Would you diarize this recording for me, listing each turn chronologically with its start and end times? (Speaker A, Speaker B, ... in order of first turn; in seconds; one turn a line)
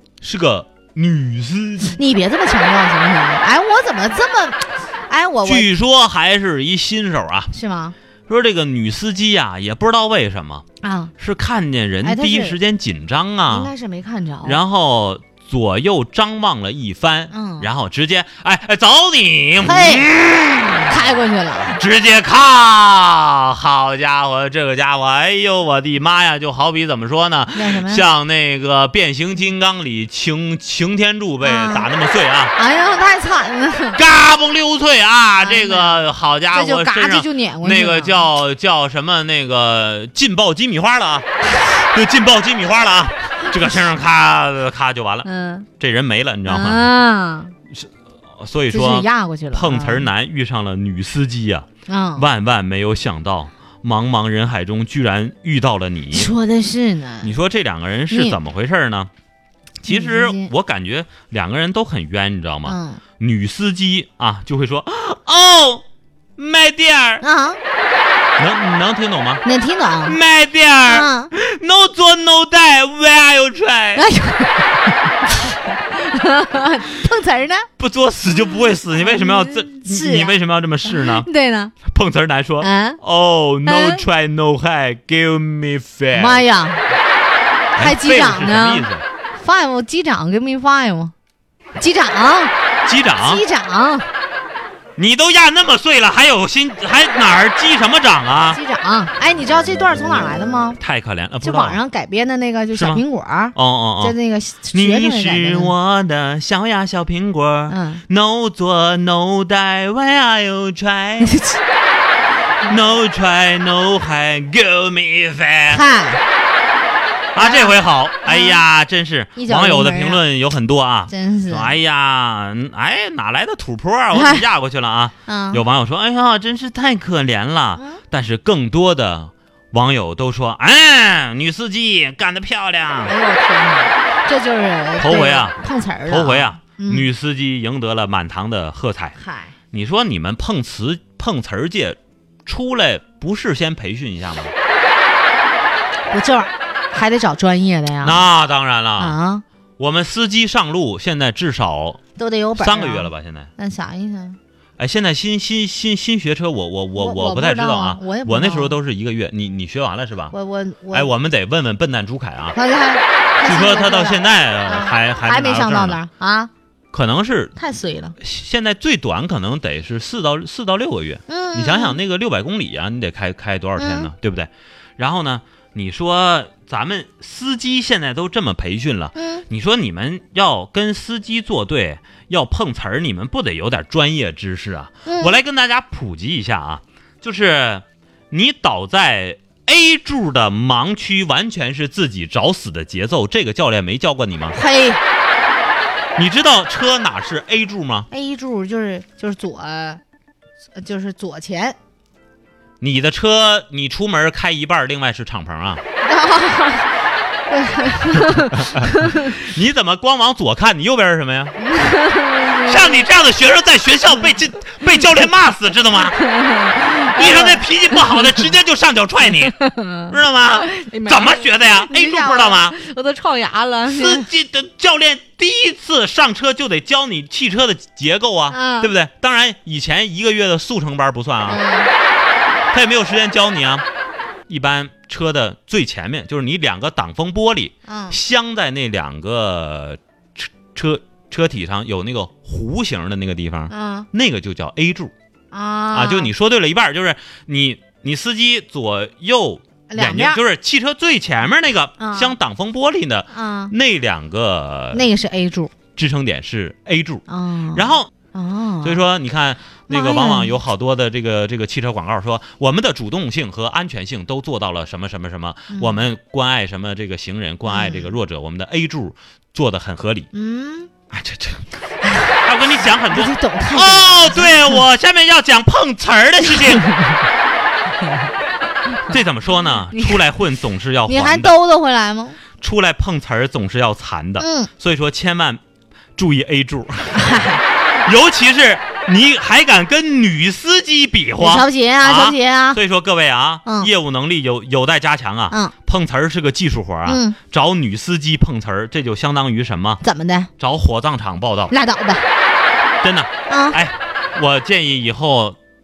Speaker A: 0.2-2.0
Speaker B: 1.9-5.7
Speaker A: 5.4-7.5
Speaker B: 7.5-7.9
Speaker A: 8.3-10.6
Speaker B: 10.8-11.1
Speaker A: 11.2-13.7
Speaker B: 12.0-12.6
Speaker B: 13.5-14.6
Speaker A: 14.4-21.0
Speaker B: 17.3-17.7
Speaker B: 19.6-20.1
Speaker B: 20.9-21.7
Speaker A: 21.6-32.5
Speaker B: 27.5-28.0
Speaker B: 31.4-31.9
Speaker B: 32.5-34.0
Speaker A: 33.9-41.2
Speaker B: 35.4-38.2
Speaker A: 41.8-45.3
Speaker B: 45.2-45.7
Speaker A: 45.8-46.9
Speaker B: 46.5-47.5
Speaker A: 47.7-56.3
Speaker B: 48.7-50.0
Speaker B: 51.9-52.3
Speaker B: 56.1-57.3
Speaker A: 57.2-59.1
Speaker B: 58.1-58.4
Speaker A: 59.8-65.8
Speaker B: 59.9-60.5
Speaker B: 62.7-63.0
Speaker A: 66.4-67.2
Speaker B: 67.2-67.6
Speaker A: 68.4-69.4
Speaker B: 69.4-70.2
Speaker A: 70.0-74.1
Speaker B: 70.8-71.3
Speaker B: 73.9-74.7
Speaker B: 75.9-77.7
Speaker A: 77.8-81.3
Speaker B: 79.0-81.7
Speaker A: 81.8-86.4
Speaker B: 82.6-83.0
Speaker B: 83.7-84.0
Speaker B: 86.1-86.8
Speaker A: 87.8-89.0
Speaker B: 87.8-91.1
Speaker B: 91.8-92.5
Speaker A: 92.8-93.4
Speaker B: 93.2-94.1
Speaker A: 95.0-98.6
Speaker B: 98.5-100.8
Speaker A: 100.8-101.8
Speaker B: 101.4-105.7
Speaker A: 102.7-103.0
Speaker A: 103.5-104.1
Speaker A: 104.7-111.4
Speaker B: 107.7-108.0
Speaker B: 111.2-111.6
Speaker A: 112.7-115.8
Speaker B: 115.7-116.2
Speaker A: 117.3-133.1
Speaker B: 117.4-118.6
Speaker B: 119.3-120.2
Speaker B: 121.1-121.7
Speaker B: 124.1-124.4
Speaker B: 125.3-125.6
Speaker B: 133.1-137.1
Speaker A: 135.0-135.6
Speaker A: 136.1-139.2
Speaker B: 139.2-139.5
Speaker A: 139.7-144.5
Speaker B: 146.1-148.2
Speaker A: 148.0-149.2
Speaker B: 149.0-149.4
Speaker A: 149.8-152.0
Speaker B: 152.2-154.4
Speaker A: 152.6-153.5
Speaker A: 154.8-160.3
Speaker B: 156.9-158.8
Speaker B: 160.3-161.1
Speaker A: 160.9-162.6
Speaker B: 162.5-166.5
Speaker A: 163.4-166.0
Speaker A: 166.9-167.5
Speaker B: 167.6-168.2
Speaker A: 168.2-194.6
Speaker B: 171.3-172.0
Speaker B: 173.8-174.1
Speaker B: 179.2-179.4
Speaker B: 185.1-185.4
Speaker B: 194.5-195.0
Speaker A: 196.2-198.1
Speaker B: 198.1-200.0
Speaker B: 200.7-201.8
Speaker A: 202.8-205.8
Speaker B: 206.0-206.9
Speaker B: 207.5-209.4
Speaker A: 208.7-211.6
Speaker B: 211.6-213.0
Speaker A: 212.5-216.2
Speaker B: 216.2-218.3
Speaker A: 217.0-219.5
Speaker B: 219.5-220.1
Speaker A: 220.1-222.8
Speaker B: 220.7-224.3
Speaker A: 223.8-231.6
Speaker B: 228.5-228.9
Speaker B: 231.5-231.9
Speaker A: 232.7-233.8
Speaker A: 234.5-245.1
Speaker B: 237.9-238.2
Speaker B: 243.7-244.1
Speaker B: 245.5-246.3
Speaker A: 245.9-255.0
Speaker B: 249.9-250.4
Speaker B: 252.0-252.3
Speaker B: 253.3-253.7
Speaker B: 254.9-255.7
Speaker A: 255.9-258.1
Speaker B: 257.3-259.0
Speaker A: 258.8-270.3
Speaker B: 259.9-260.6
Speaker B: 265.7-266.0
Speaker B: 267.6-268.1
Speaker B: 270.3-270.9
Speaker A: 271.1-271.6
Speaker A: 272.3-276.9
Speaker B: 273.1-274.8
Speaker A: 279.1-281.5
Speaker B: 279.9-280.2
Speaker B: 281.1-282.4
Speaker A: 282.6-285.6
Speaker B: 284.4-284.7
Speaker A: 286.1-300.0
Speaker B: 287.2-287.6
Speaker B: 291.4-292.8
Speaker B: 297.1-297.4
Speaker B: 300.0-300.5
Speaker A: 300.6-301.7
Speaker B: 301.7-302.2
Speaker A: 303.0-305.6
Speaker B: 303.5-303.8